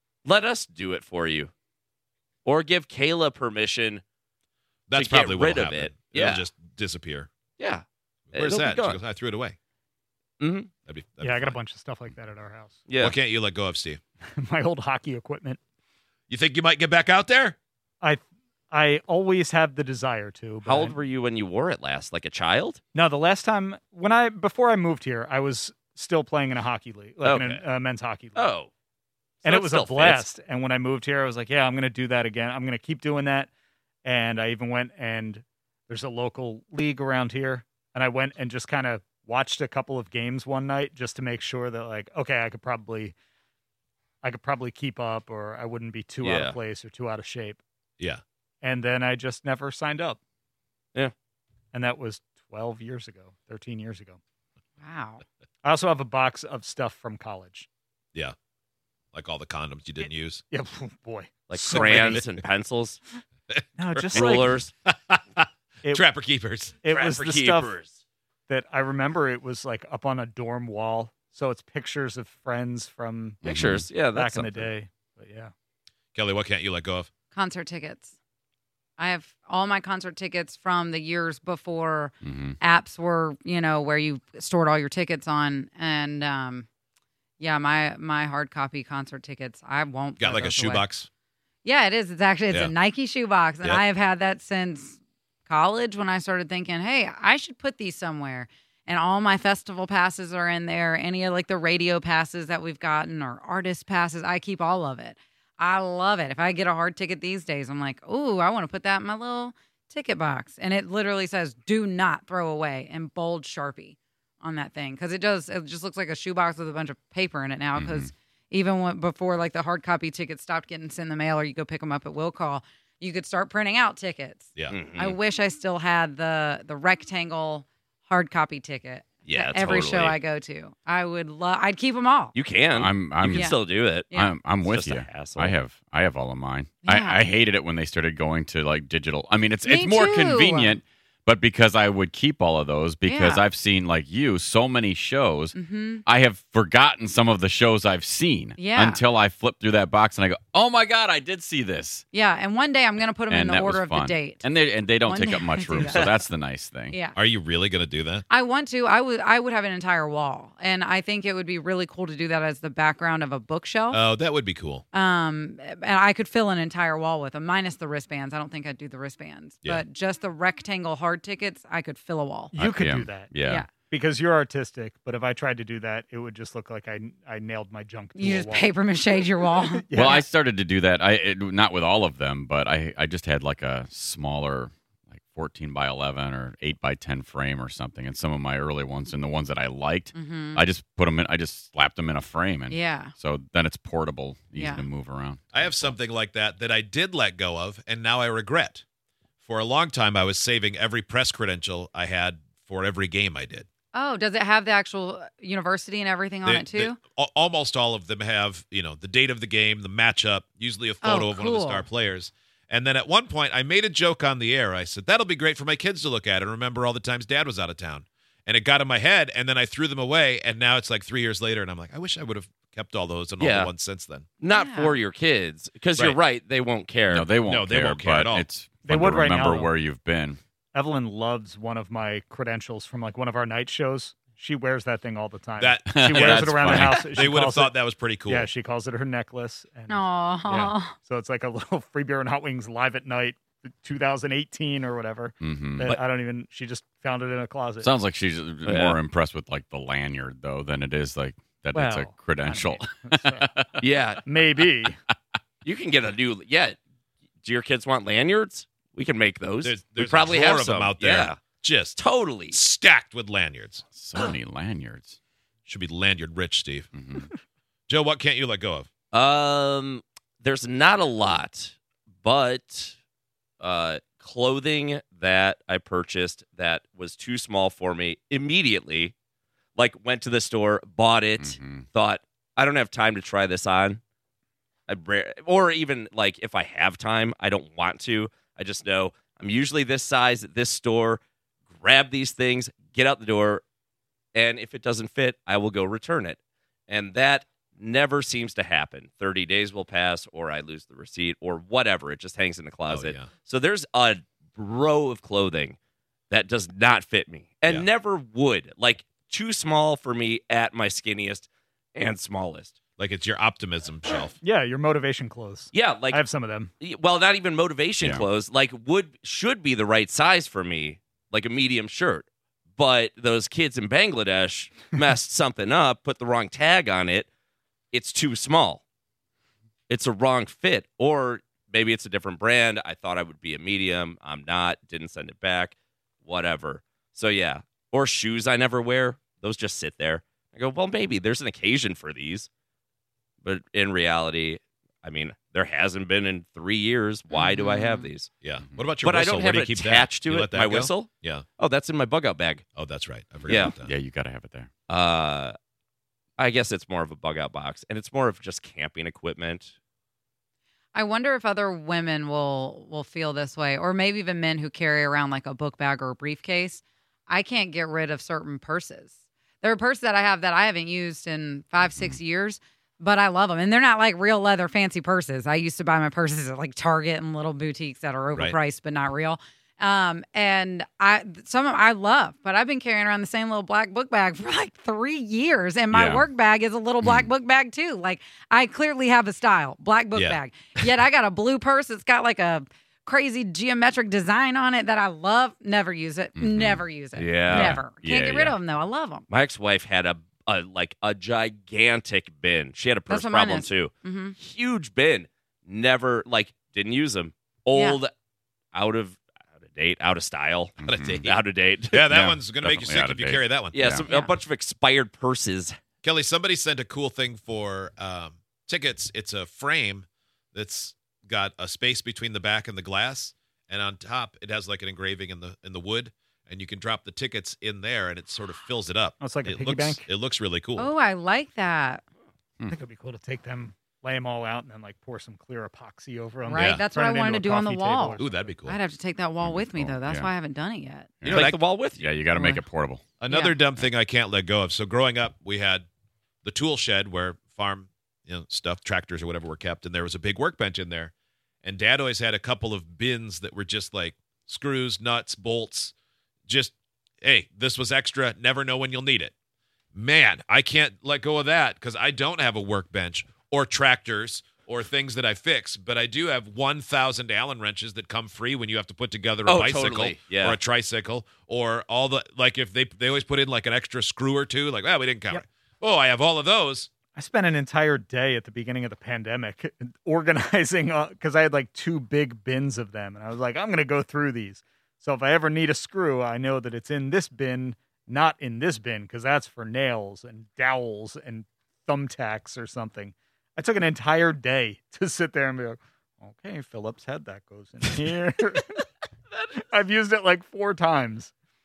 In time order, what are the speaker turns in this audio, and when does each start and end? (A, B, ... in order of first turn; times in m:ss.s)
0:00.2-0:01.5 A
0:02.4-0:04.0 A
0:04.9-0:07.3 B
0:04.9-0:06.5 A
0:07.6-0:09.0 A
0:08.3-0:09.6 B
0:10.4-0:10.7 A
0:10.8-0:11.6 B
0:11.2-0:12.9 C
0:12.9-0:13.2 A
0:13.0-0:14.0 B
0:14.3-0:15.6 C
0:16.3-0:17.6 B
0:18.0-0:21.0 C
0:20.6-0:22.8 A
0:22.9-0:28.5 C
0:27.2-0:27.6 A
0:28.3-0:28.7 A
0:29.4-0:30.3 A
0:29.4-0:33.5 C
0:34.0-0:43.1 C
0:44.2-0:47.6 C
0:46.2-0:46.6 A
0:48.6-0:50.2 C
0:51.7-0:54.2 C
0:54.8-0:55.2 D
0:55.6-0:57.7 C
0:59.1-1:00.4 B
1:00.5-1:02.3 C
1:01.5-1:03.0 A
1:03.5-1:04.1 B
1:03.8-1:04.6 C
1:04.1-1:04.7 A
1:04.8-1:06.8 B
1:06.8-1:07.8 C
1:06.9-1:08.0 A
1:08.5-1:15.5 C
1:13.4-1:13.9 E
1:13.4-1:14.7 A
1:16.1-1:17.1 B
1:17.3-1:18.1 D
1:19.0-1:26.7 D
1:22.2-1:22.6 E
1:27.4-1:30.8 D
1:30.2-1:31.1 B
1:31.6-2:12.3 D
1:57.8-1:58.1 E
2:04.6-2:04.8 B
2:04.7-2:05.2 A
2:09.2-2:10.2 A
2:12.3-2:14.1 A
2:12.7-2:13.5 E
2:13.2-2:14.3 D
2:14.1-2:25.5 E
2:14.6-2:15.6 A
2:16.8-2:17.2 D
2:19.6-2:20.8 D
2:23.0-2:23.4 D
2:25.5-2:26.0 D
2:26.0-2:32.0 E
2:28.6-2:29.0 D
2:32.1-2:36.2 D
2:33.3-2:37.0 E
2:36.9-2:37.2 D
2:37.1-2:38.2 B
2:38.3-2:44.0 D
2:43.9-2:44.8 B
2:44.9-2:52.5 D
2:52.5-3:00.2 C
2:52.6-2:53.7 E
2:58.2-2:59.8 D
2:59.9-3:15.7 E
3:10.1-3:10.6 D
3:12.7-3:13.1 D
3:14.6-3:14.8 D
3:15.5-3:18.8 B
3:19.4-3:23.7 B
3:23.9-3:27.0 D
3:26.4-3:44.2 B
3:31.0-3:31.8 D
3:43.4-3:43.7 A
3:44.4-3:47.3 A
3:44.5-3:45.0 D
3:47.1-3:50.4 E
3:47.4-3:48.5 B
3:48.8-3:49.7 C
3:50.7-4:07.9 C
3:55.6-3:58.5 B
3:55.8-3:57.3 E
3:59.9-4:00.9 D
4:05.4-4:05.9 E
4:07.8-4:13.7 E
4:08.6-4:09.0 A
4:11.7-4:13.5 C
4:13.8-4:14.2 A
4:14.2-4:15.0 C
4:15.6-4:16.8 A
4:17.4-4:21.4 A
4:19.6-4:23.8 B
4:22.0-4:22.6 A
4:23.9-4:25.2 E
4:25.6-4:26.9 B
4:26.9-4:27.3 E
4:27.9-4:28.9 B
4:29.1-4:33.0 A
4:33.6-4:39.1 A
4:39.8-4:44.0 A
4:41.4-4:41.9 E
4:44.9-4:53.6 A
4:54.3-5:05.8 A
5:02.9-5:03.3 B
5:06.3-5:12.8 A
5:13.0-5:14.4 B
5:14.4-5:16.7 C
5:15.7-5:16.2 A
5:16.8-5:27.3 A
5:18.0-5:18.3 E
5:27.9-5:28.8 A
5:29.9-5:42.5 A
5:43.4-5:48.3 A
5:47.3-5:48.1 D
5:48.4-5:51.5 B
5:48.6-5:49.0 E
5:49.0-5:52.6 A
5:52.7-5:53.9 B
5:53.4-5:54.7 E
5:53.5-5:53.8 A
5:54.9-5:55.5 A
5:56.4-5:59.7 A
6:00.9-6:39.3 D
6:25.9-6:26.2 E
6:27.0-6:27.3 E
6:30.1-6:30.4 B
6:36.4-6:36.8 E
6:37.1-6:37.8 A
6:37.5-6:38.6 E
6:39.3-6:48.1 A
6:43.1-6:44.4 D
6:47.7-6:48.0 D
6:48.7-6:52.1 A
6:50.8-6:51.3 E
6:50.8-6:51.3 B
6:51.9-6:53.8 B
6:52.1-6:54.0 E
6:53.7-6:55.8 A
6:54.0-6:54.4 D
6:56.0-7:10.9 B
7:09.2-7:10.1 C
7:10.8-7:12.0 D
7:12.7-7:18.5 C
7:16.4-7:21.1 D
7:16.5-7:16.9 B
7:18.2-7:18.8 B
7:19.4-7:20.3 E
7:21.2-7:23.0 E
7:21.2-7:21.6 B
7:21.3-7:22.0 A
7:22.3-7:22.6 D
7:23.2-7:25.9 B
7:23.3-7:23.6 D
7:26.4-7:35.9 B
7:36.5-7:39.3 B
7:39.9-7:56.9 B
7:49.4-7:50.6 A
7:57.1-8:18.8 C
8:19.5-8:21.3 C